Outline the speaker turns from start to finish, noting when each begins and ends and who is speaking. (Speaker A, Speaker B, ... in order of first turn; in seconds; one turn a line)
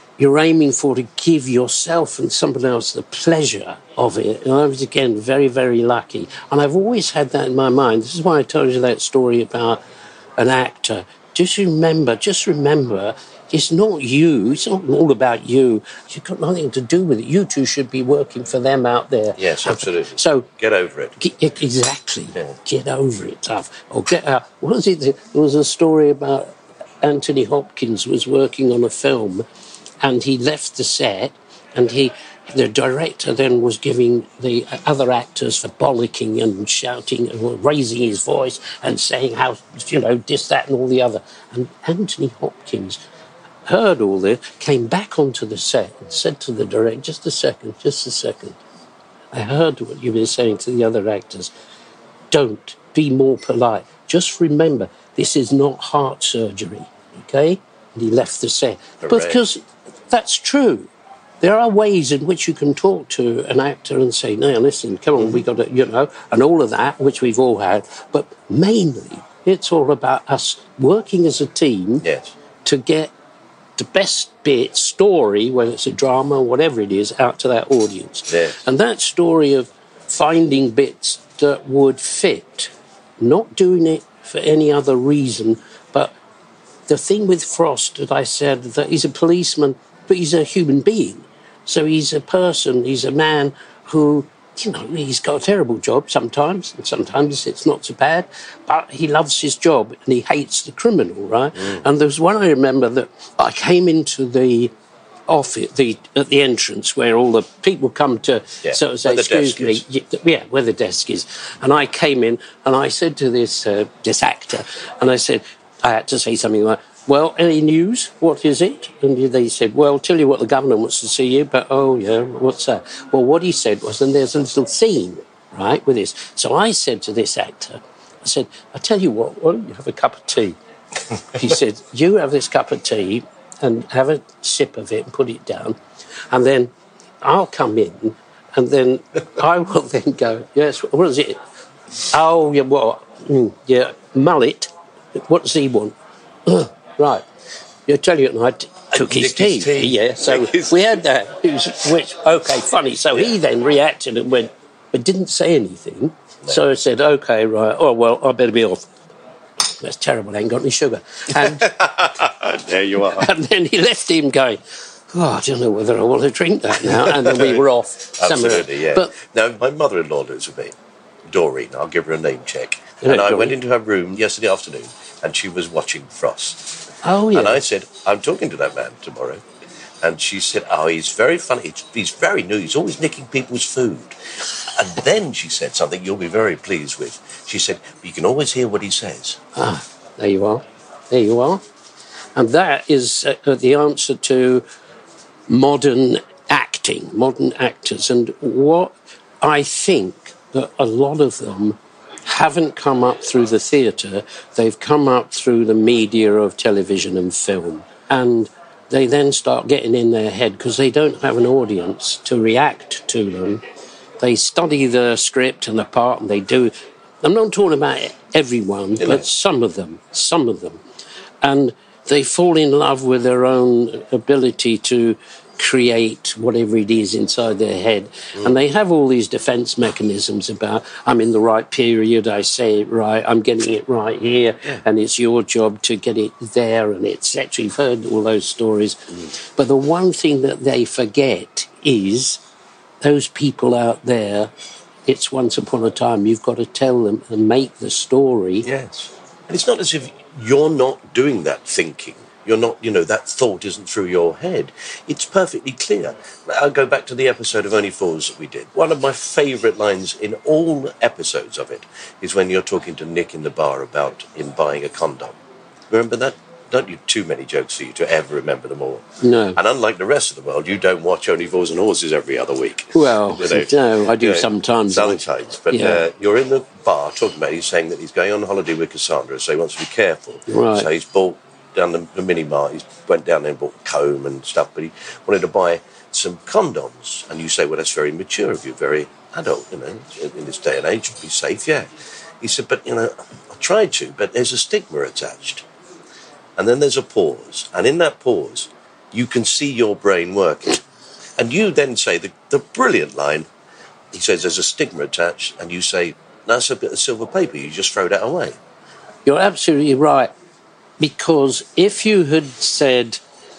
Speaker A: 0.2-9.8
Speaker A: 10.4-20.4
Speaker B: 19.4-21.1
Speaker A: 21.2-29.4
Speaker A: 30.0-43.0
Speaker A: 43.7-48.6
Speaker A: 49.3-51.5
Speaker A: 52.3-60.9
Speaker B: 59.0-59.4
Speaker A: 61.4-72.0
Speaker B: 72.0-72.3
Speaker A: 72.6-73.1
Speaker A: 73.8-86.1
Speaker B: 78.3-78.6
Speaker A: 86.9-104.7
Speaker B: 101.6-101.8
Speaker A: 105.3-130.6
Speaker B: 108.6-109.8
Speaker A: 131.3-135.8
Speaker A: 136.3-141.4
Speaker A: 142.1-145.9
Speaker A: 146.4-147.2
Speaker A: 147.9-158.8
Speaker B: 148.9-151.0
Speaker A: 159.8-161.8
Speaker B: 161.3-163.3
Speaker A: 163.1-164.6
Speaker A: 165.1-169.1
Speaker B: 166.8-167.6
Speaker B: 168.2-170.8
Speaker B: 171.3-176.8
Speaker A: 173.0-173.6
Speaker A: 177.0-177.6
Speaker B: 177.3-179.4
Speaker B: 180.0-189.4
Speaker A: 189.5-191.6
Speaker A: 192.3-194.6
Speaker A: 195.5-213.6
Speaker A: 214.2-220.8
Speaker B: 219.0-219.2
Speaker A: 221.4-242.4
Speaker A: 243.0-244.5
Speaker A: 245.1-248.7
Speaker B: 248.6-265.4
Speaker B: 265.9-291.9
Speaker A: 269.2-269.6
Speaker A: 272.9-276.0
Speaker A: 280.5-280.9
Speaker B: 292.4-295.6
Speaker B: 296.6-300.8
Speaker B: 301.4-303.5
Speaker B: 304.1-308.6
Speaker A: 309.2-310.3
Speaker A: 311.0-313.2